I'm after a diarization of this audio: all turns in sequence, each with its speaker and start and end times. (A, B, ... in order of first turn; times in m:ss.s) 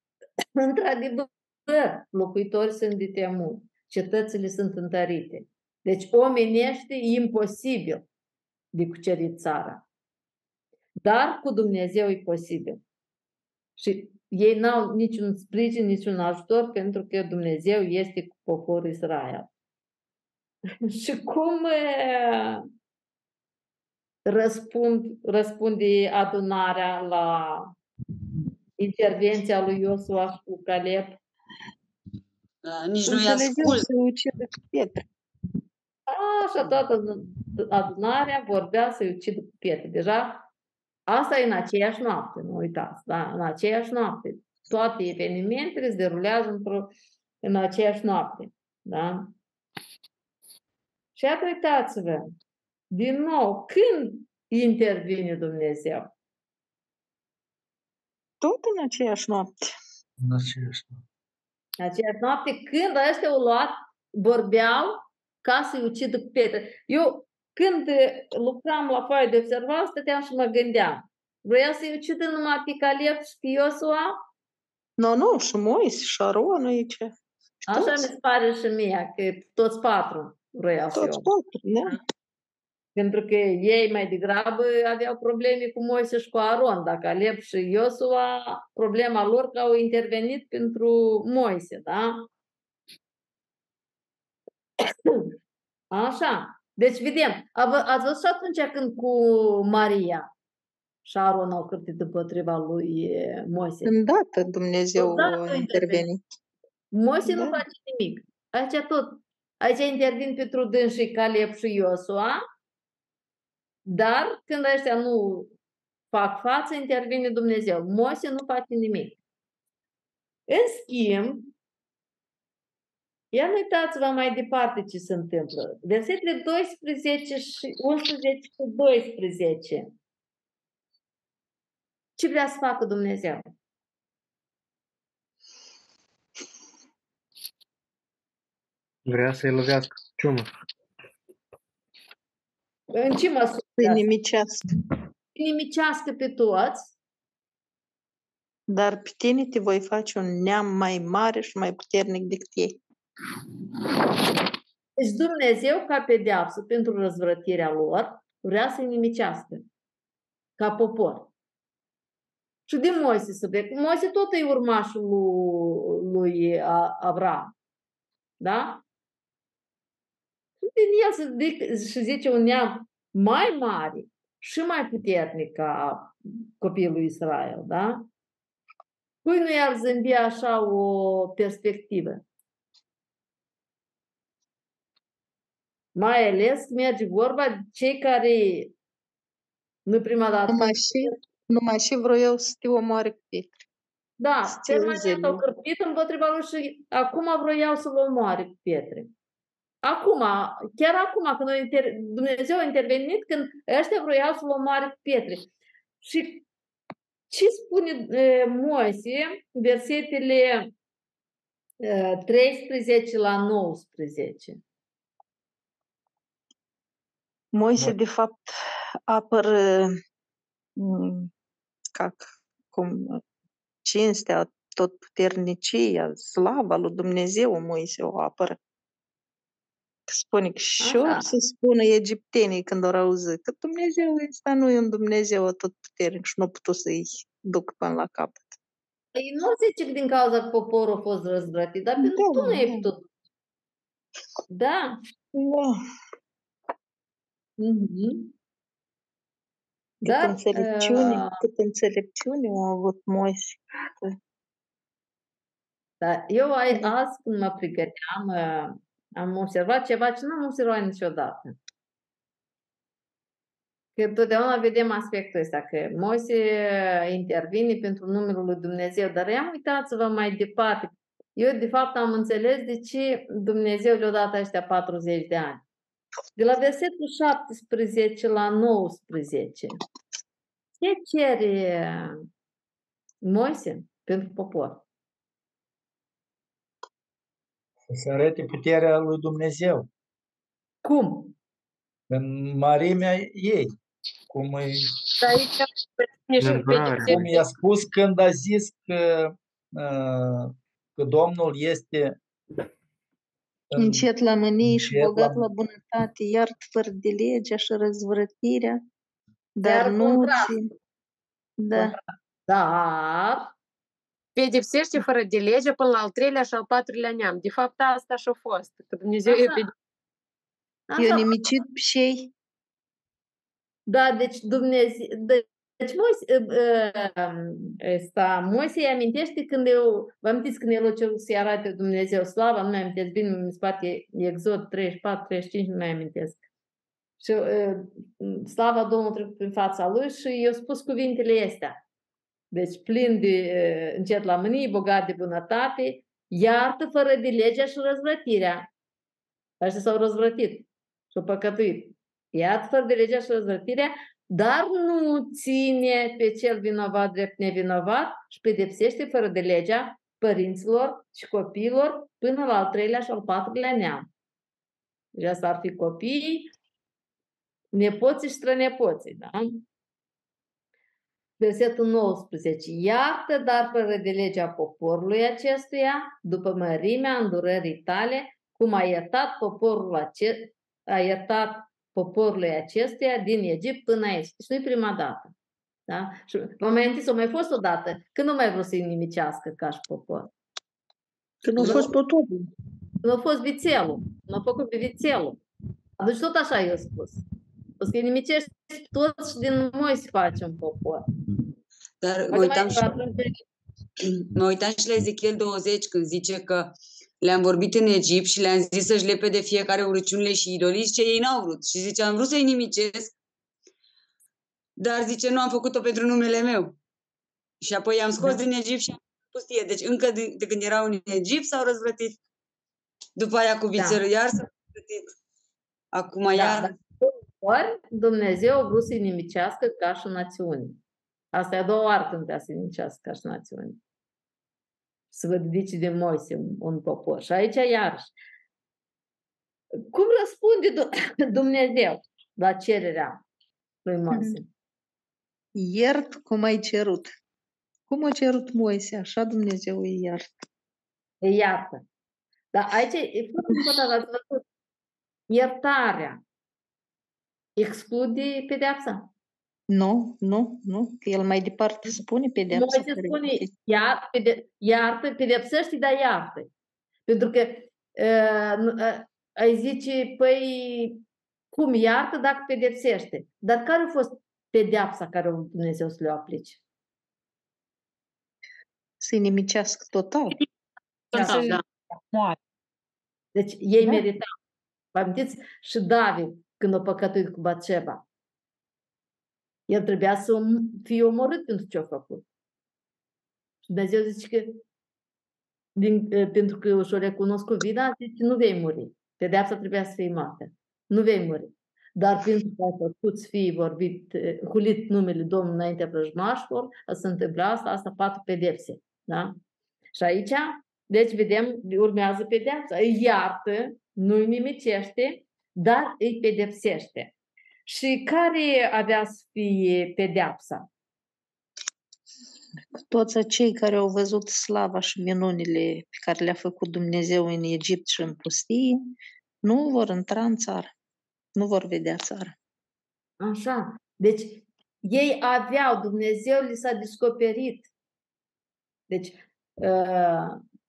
0:00.6-0:08.0 A
0:08.7-0:09.8 A
0:11.0-0:12.8 A
0:13.8-0:19.5 A
0:20.9-0:22.6 A
0:24.3-0:27.7 A
0:28.8-0:31.2 A
0:32.6-0:33.9 B
0:33.0-0:35.0 C
0:36.1-0:40.4 A
0:41.1-0:46.9 A
0:47.4-0:49.3 A
0:51.2-0:52.2 A
0:52.9-0:56.1 A
0:58.4-0:59.7 C
1:00.2-1:01.0 D
1:01.8-1:14.2 A
1:15.0-1:17.1 C
1:17.7-1:18.1 C
1:17.7-1:21.3 A
1:21.0-1:22.0 C
1:23.0-1:32.3 A
1:34.9-1:35.3 A
1:35.9-1:40.3 A
1:41.0-1:43.9 A
1:43.8-1:46.2 C
1:45.0-1:46.1 A
1:46.9-1:52.4 A
1:47.3-1:47.6 C
1:53.8-1:55.5 A
1:56.1-1:59.2 A
2:00.5-2:01.5 A
2:03.3-2:09.9 A
2:12.2-2:13.4 A
2:19.1-2:20.5 E
2:22.9-2:24.0 A
2:23.8-2:24.7 C
2:25.4-2:26.9 A
2:28.7-2:32.8 C
2:35.0-2:39.6 A
2:40.6-2:41.3 A
2:42.7-2:47.5 A
2:48.4-2:48.8 A
2:50.6-2:58.0 A
2:59.2-3:02.2 A
3:06.0-3:08.7 A
3:09.9-3:11.2 A
3:10.5-3:13.6 C
3:14.2-3:19.1 A
3:14.5-3:15.4 C
3:19.8-3:25.4 A
3:26.0-3:26.4 A
3:27.3-3:30.7 A
3:31.8-3:34.6 A
3:37.5-3:38.5 C
3:39.1-3:40.0 C
3:40.8-3:41.3 C
3:42.0-3:43.2 C
3:43.8-3:48.6 C
3:50.1-3:58.6 C
3:50.8-3:51.3 A
3:59.2-4:03.1 A
4:02.0-4:02.9 C
4:04.5-4:05.0 A
4:05.3-4:05.8 C
4:07.6-4:08.3 A
4:10.0-4:14.2 C
4:10.0-4:11.4 A
4:16.0-4:21.6 A
4:24.0-4:35.6 A
4:36.4-4:39.8 A
4:40.8-4:42.1 A
4:43.2-4:44.8 A
4:47.9-4:49.9 D
4:50.8-4:51.3 A
4:52.1-4:53.7 D
4:54.3-4:54.9 D
4:55.2-4:57.4 F
4:56.4-4:57.2 E
4:57.0-5:02.2 D
5:03.7-5:04.1 D
5:03.8-5:08.8 C
5:04.6-5:05.4 D
5:09.6-5:10.7 C
5:09.6-5:10.5 A
5:11.6-5:11.9 C
5:11.8-5:13.5 A
5:14.4-5:19.7 F
5:19.2-5:19.6 A
5:20.9-5:21.3 A
5:21.0-5:22.3 C
5:23.9-5:36.4 A
5:37.2-5:41.8 A
5:42.5-5:48.7 A
5:49.6-6:04.1 A
6:05.2-6:06.5 A
6:07.7-6:09.6 A
6:11.4-6:25.3 A
6:25.9-6:30.3 A
6:31.4-6:32.5 C
6:31.6-6:31.9 A
6:33.0-6:35.4 A
6:36.0-6:37.2 A
6:37.8-6:41.0 A
6:42.0-6:42.9 B
6:42.3-6:43.4 A
6:44.2-6:53.1 B
6:54.8-6:56.8 B
6:57.6-7:02.2 B
7:03.2-7:05.1 B
7:03.8-7:04.0 A
7:05.9-7:06.7 B
7:06.3-7:10.8 A
7:11.3-7:13.8 A
7:15.1-7:18.1 A
7:19.8-7:23.2 A
7:23.8-7:24.5 A
7:24.1-7:24.4 C
7:25.6-7:27.1 C
7:27.9-7:30.4 C
7:31.2-7:31.8 A
7:32.5-7:34.4 A
7:35.3-7:36.2 A
7:37.6-7:39.1 A
7:39.7-7:43.5 C
7:42.5-7:46.5 A
7:47.1-7:51.0 A
7:51.5-7:56.6 A
7:59.0-8:00.4 C
8:01.1-8:01.6 F
8:01.1-8:01.6 A
8:03.4-8:04.3 A
8:05.0-8:08.0 A
8:09.7-8:12.2 A
8:13.6-8:14.6 A
8:15.8-8:29.4 A
8:30.0-8:37.1 A
8:37.7-8:40.7 A
8:42.8-8:48.9 C
8:49.4-8:50.7 C
8:51.4-8:52.4 C
8:53.2-8:57.7 A
8:58.9-9:00.4 A